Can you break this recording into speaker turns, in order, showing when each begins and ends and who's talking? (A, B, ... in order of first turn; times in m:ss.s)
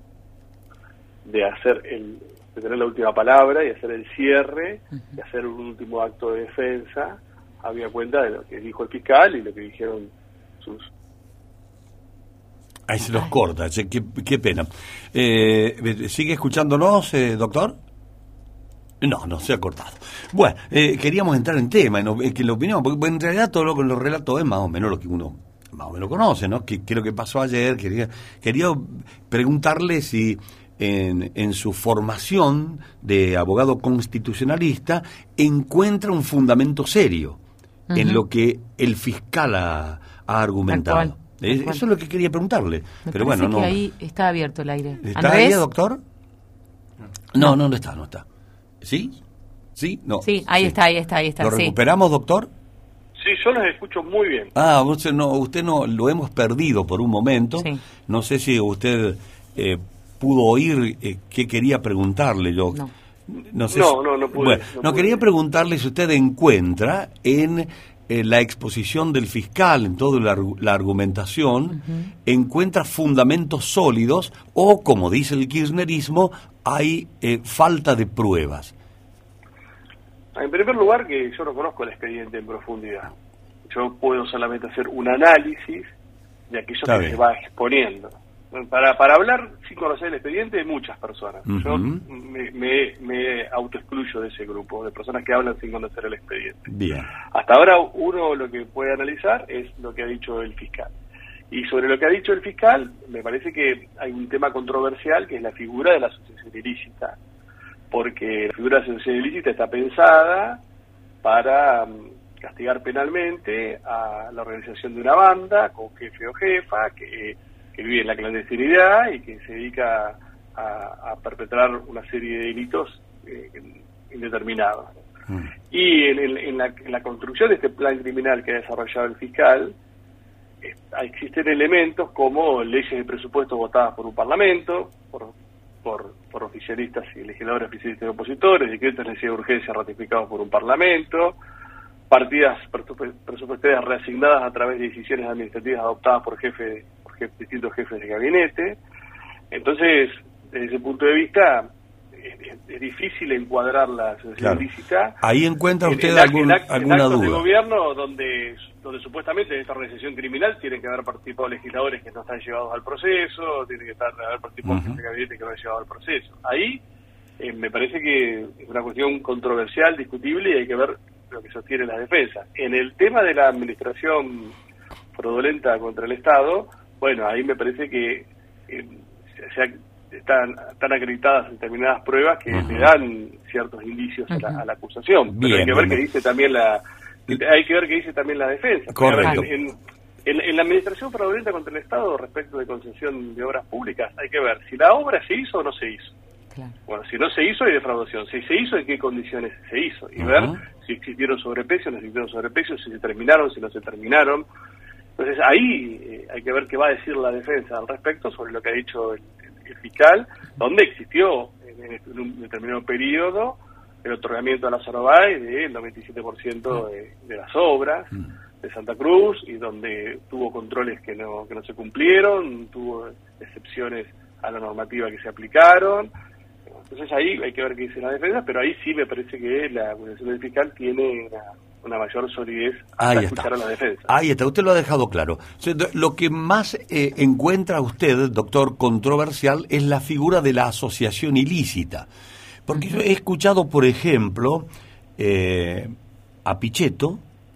0:01.2-0:10.9 A
0:12.9-0:17.8 B
0:19.0-0:37.4 B
0:37.9-0:38.2 C
0:37.9-0:43.8 B
0:40.7-0:41.8 C
0:43.0-0:45.6 C
0:45.0-0:46.0 B
0:47.3-0:48.2 B
0:48.8-0:49.2 B
0:49.8-0:50.8 B
0:50.2-0:51.7 C
0:51.4-0:52.5 B
0:53.2-0:54.5 A
0:54.5-1:18.7 B
1:03.7-1:05.2 A
1:11.8-1:12.1 C
1:20.4-1:23.1 A
1:23.7-1:25.9 A
1:26.5-1:36.6 A
1:26.8-1:27.2 B
1:31.5-1:32.0 B
1:36.7-1:37.1 B
1:37.3-1:40.9 A
1:41.5-1:47.2 A
1:47.9-1:50.6 A
1:51.2-2:04.9 A
2:05.7-2:09.8 A
2:10.6-2:15.3 A
2:15.8-2:21.4 A
2:22.1-2:28.8 A
2:29.5-2:35.2 A
2:34.4-2:34.7 B
2:35.2-2:37.5 B
2:35.8-2:46.8 A
2:44.6-2:45.0 B
2:47.4-2:54.5 A
2:55.2-3:16.2 A
3:02.5-3:02.9 B
3:04.3-3:04.6 C
3:05.3-3:06.0 B
3:08.9-3:09.5 B
3:09.2-3:09.4 C
3:16.9-3:24.5 A
3:20.2-3:20.6 B
3:25.2-3:38.1 A
3:38.6-3:46.1 A
3:46.9-3:54.1 A
3:53.0-3:53.5 B
3:54.1-4:02.1 B
4:02.7-4:05.9 B
4:06.4-4:07.2 B